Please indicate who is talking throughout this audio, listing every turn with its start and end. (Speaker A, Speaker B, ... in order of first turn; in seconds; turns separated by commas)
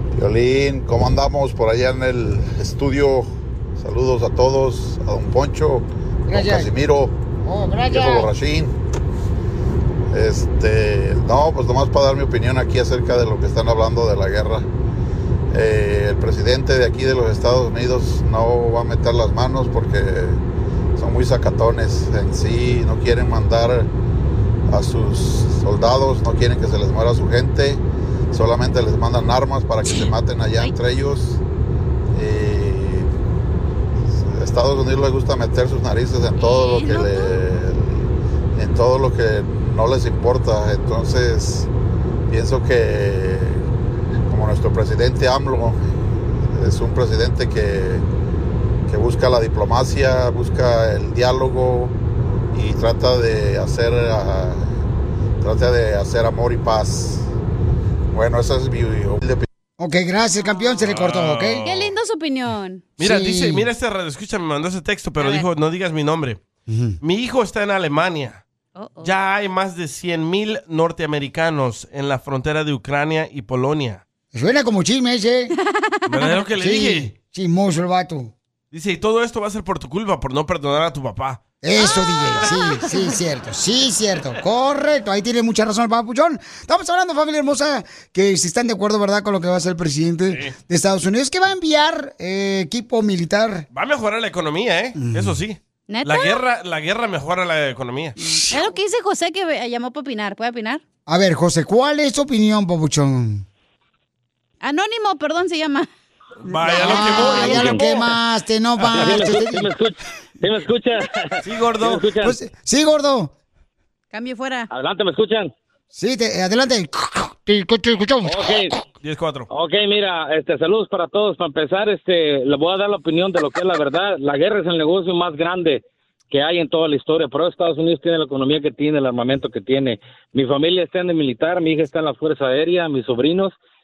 Speaker A: 0.1-7.1, Speaker B: 6.3-6.7, Speaker B: 7.5-8.3, Speaker A: 7.9-8.7, Speaker A: 10.1-14.7, Speaker A: 15.5-20.4, Speaker A: 21.0-23.9, Speaker A: 24.7-31.4, Speaker A: 32.1-33.1, Speaker A: 34.1-41.7, Speaker C: 36.4-37.4, Speaker A: 42.3-43.6, Speaker A: 44.3-48.0, Speaker A: 48.9-52.0, Speaker A: 52.5-54.8, Speaker A: 55.4-57.3, Speaker A: 58.1-59.5, Speaker B: 59.8-61.6, Speaker C: 60.4-60.8, Speaker D: 60.9-61.9, Speaker C: 61.6-62.8, Speaker B: 63.0-63.7, Speaker D: 63.0-66.4, Speaker C: 65.2-65.5, Speaker B: 66.7-67.0, Speaker D: 67.0-68.4, Speaker C: 68.8-69.1, Speaker D: 69.0-74.0, Speaker B: 74.3-75.5, Speaker C: 75.5-76.4, Speaker D: 76.1-77.1, Speaker B: 76.6-78.3, Speaker D: 78.7-81.4, Speaker B: 81.6-93.7, Speaker C: 81.8-83.1, Speaker D: 93.7-98.2, Speaker B: 95.0-95.4, Speaker C: 95.9-96.4, Speaker B: 98.2-98.6, Speaker C: 98.5-100.8, Speaker B: 101.1-103.5, Speaker C: 104.6-105.9, Speaker D: 106.4-107.9, Speaker B: 106.7-109.7, Speaker E: 107.2-108.0, Speaker D: 108.8-109.1, Speaker E: 108.9-112.4, Speaker D: 111.4-112.1, Speaker B: 112.2-113.3, Speaker C: 114.1-114.7, Speaker E: 114.7-115.5, Speaker B: 115.9-118.6, Speaker E: 118.2-118.7, Speaker D: 119.0-119.5, Speaker E: 119.5-133.5